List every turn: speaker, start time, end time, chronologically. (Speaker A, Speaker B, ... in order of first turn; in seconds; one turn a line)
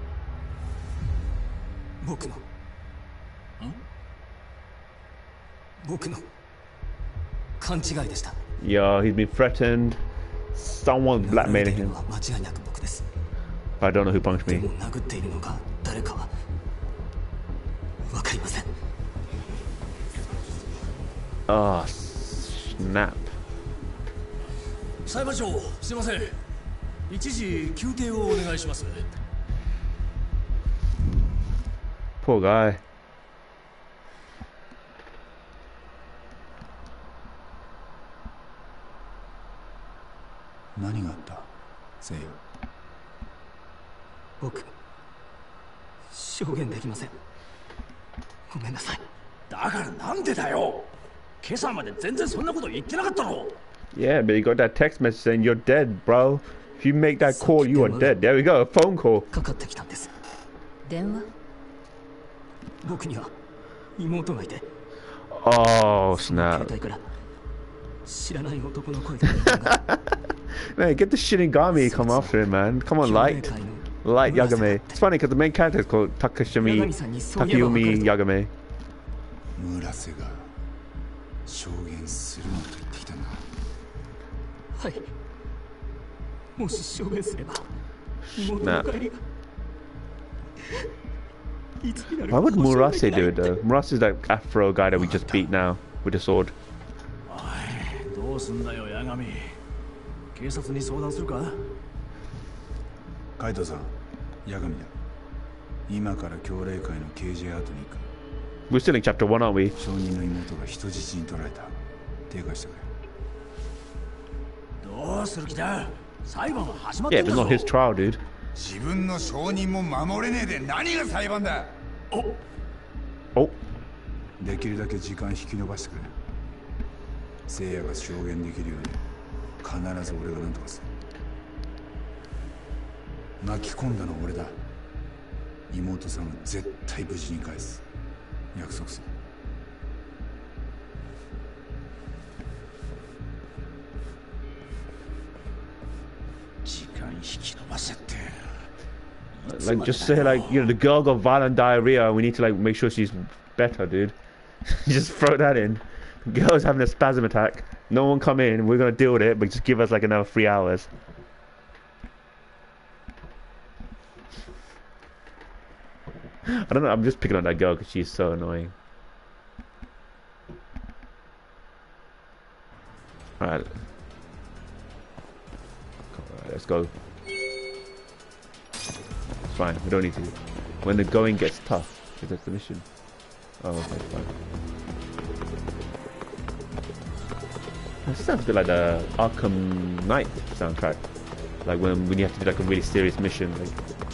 Speaker A: 2.0-2.4
Speaker A: 5.8-6.2
Speaker A: 7.6-8.4
Speaker B: 8.6-10.0
Speaker B: 10.5-12.0
Speaker A: 11.2-13.1
Speaker B: 13.8-14.7
Speaker A: 14.4-16.3
Speaker A: 18.1-18.7
Speaker B: 21.5-23.3
Speaker C: 25.1-26.4
Speaker C: 27.1-29.1
Speaker B: 32.2-32.8
Speaker D: 40.7-42.4
Speaker A: 44.4-44.7
Speaker A: 46.1-47.1
Speaker A: 48.5-49.0
Speaker C: 49.5-50.9
Speaker C: 51.4-53.6
Speaker B: 53.9-59.3
Speaker A: 57.4-58.2
Speaker A: 59.3-60.1
Speaker A: 62.8-63.3
Speaker A: 64.0-64.7
Speaker B: 65.3-66.7
Speaker A: 66.2-67.1
Speaker A: 68.0-69.8
Speaker B: 70.7-73.5
Speaker A: 71.8-72.3
Speaker A: 73.0-75.0
Speaker B: 74.0-78.5
Speaker A: 76.6-78.1
Speaker D: 79.5-80.5
Speaker D: 81.5-83.5
Speaker A: 84.8-85.1
Speaker A: 86.6-87.6
Speaker A: 88.3-89.2
Speaker B: 88.4-88.9
Speaker A: 91.8-93.5
Speaker B: 92.3-96.5
Speaker C: 97.3-99.6
Speaker C: 100.3-101.7
Speaker D: 103.4-104.9
Speaker D: 105.9-108.1
Speaker B: 108.7-109.8
Speaker D: 109.8-111.8
Speaker D: 112.3-112.9
Speaker C: 114.8-117.7
Speaker B: 117.1-118.2
Speaker D: 118.5-121.8
Speaker D: 124.4-126.1
Speaker D: 127.5-129.0
Speaker D: 129.6-130.9
Speaker D: 133.4-134.6
Speaker D: 135.7-137.8
Speaker D: 138.5-139.1
Speaker D: 147.7-148.0
Speaker B: 149.5-154.1
Speaker B: 154.7-160.9
Speaker B: 166.5-168.7
Speaker B: 173.4-173.7
Speaker B: 176.1-176.9
Speaker B: 179.5-182.8
Speaker B: 183.6-184.3
Speaker B: 188.1-191.0
Speaker B: 191.6-193.8